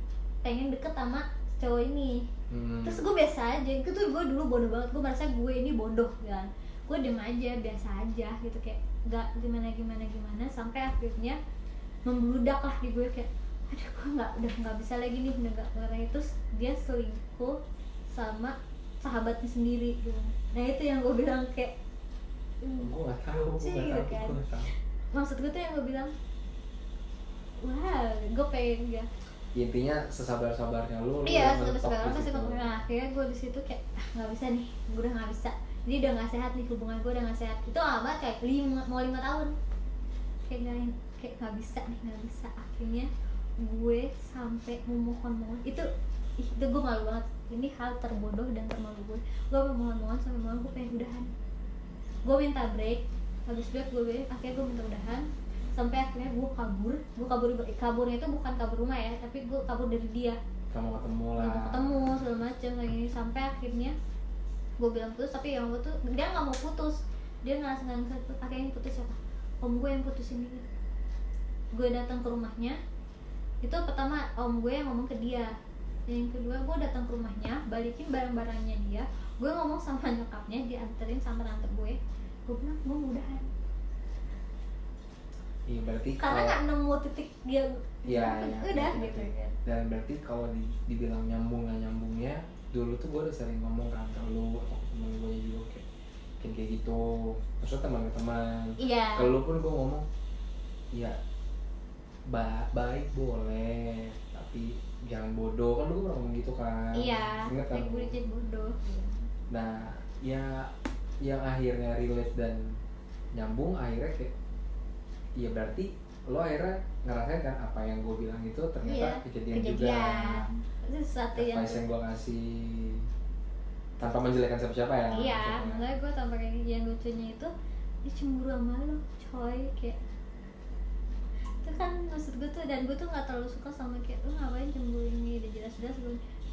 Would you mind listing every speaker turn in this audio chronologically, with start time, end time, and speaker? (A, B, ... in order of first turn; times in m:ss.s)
0:00.4-0:02.2 A
0:02.5-0:03.0 B
0:02.8-0:11.4 A
0:12.0-0:17.6 A
0:18.1-0:21.7 A
0:22.6-0:22.9 A
0:22.8-0:24.7 B
0:23.6-0:24.4 A
0:25.1-0:26.1 A
0:27.6-0:29.1 A
0:29.5-0:32.7 B
0:31.2-0:39.6 A
0:40.5-0:45.9 A
0:46.4-0:51.3 A
0:52.2-1:00.4 A
1:00.7-1:02.0 B
1:01.4-1:04.0 A
1:04.8-1:10.6 A
1:11.7-1:12.8 A
1:13.6-1:15.5 A
1:16.1-1:23.5 A
1:25.7-1:26.6 B
1:26.2-1:29.5 A
1:28.0-1:35.8 B
1:36.4-1:40.0 B
1:38.8-1:39.3 A
1:40.9-1:41.2 B
1:42.3-1:48.1 B
1:46.9-1:49.2 A
1:49.5-1:52.8 B
1:53.3-1:54.3 B
1:55.4-2:00.5 B
1:58.8-2:01.9 A
2:01.3-2:03.1 B
2:04.0-2:05.9 B
2:05.1-2:07.5 A
2:08.0-2:10.0 A
2:11.6-2:16.2 A